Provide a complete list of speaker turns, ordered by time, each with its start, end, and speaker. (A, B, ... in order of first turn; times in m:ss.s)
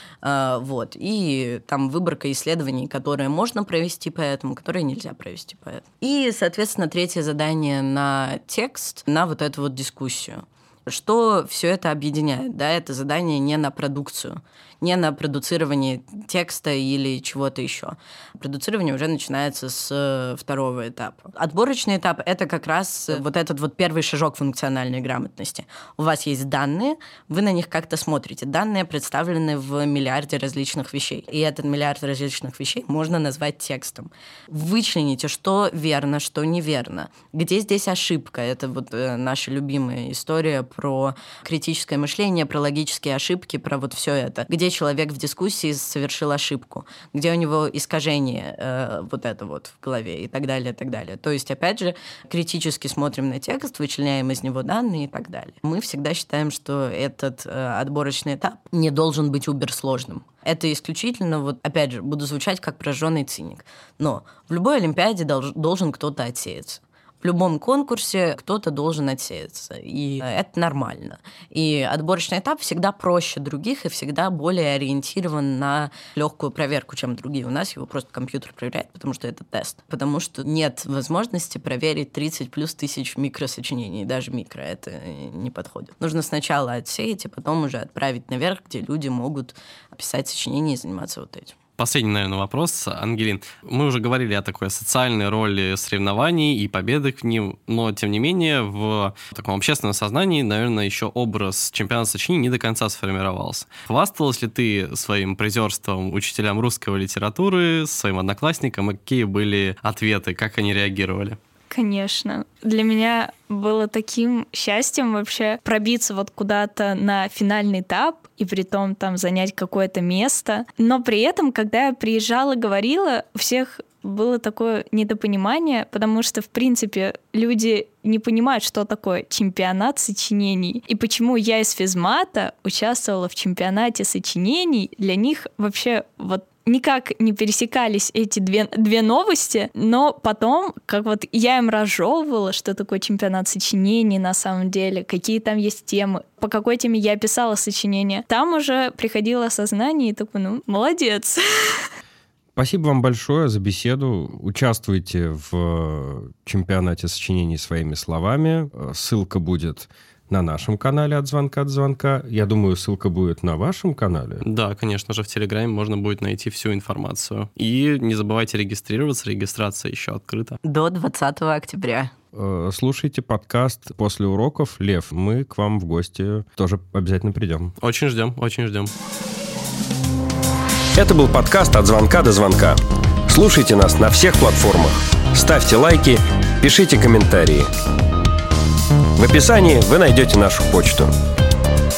0:00.2-1:31.6 A
1:31.8-1:51.4 B
1:51.7-2:31.8 C
2:32.6-2:44.4 D
2:44.4-2:50.6 B
2:50.6-2:52.1 A
2:52.3-2:57.8 D
2:57.8-2:58.9 B
3:00.9-3:07.7 D
3:09.2-3:11.1 D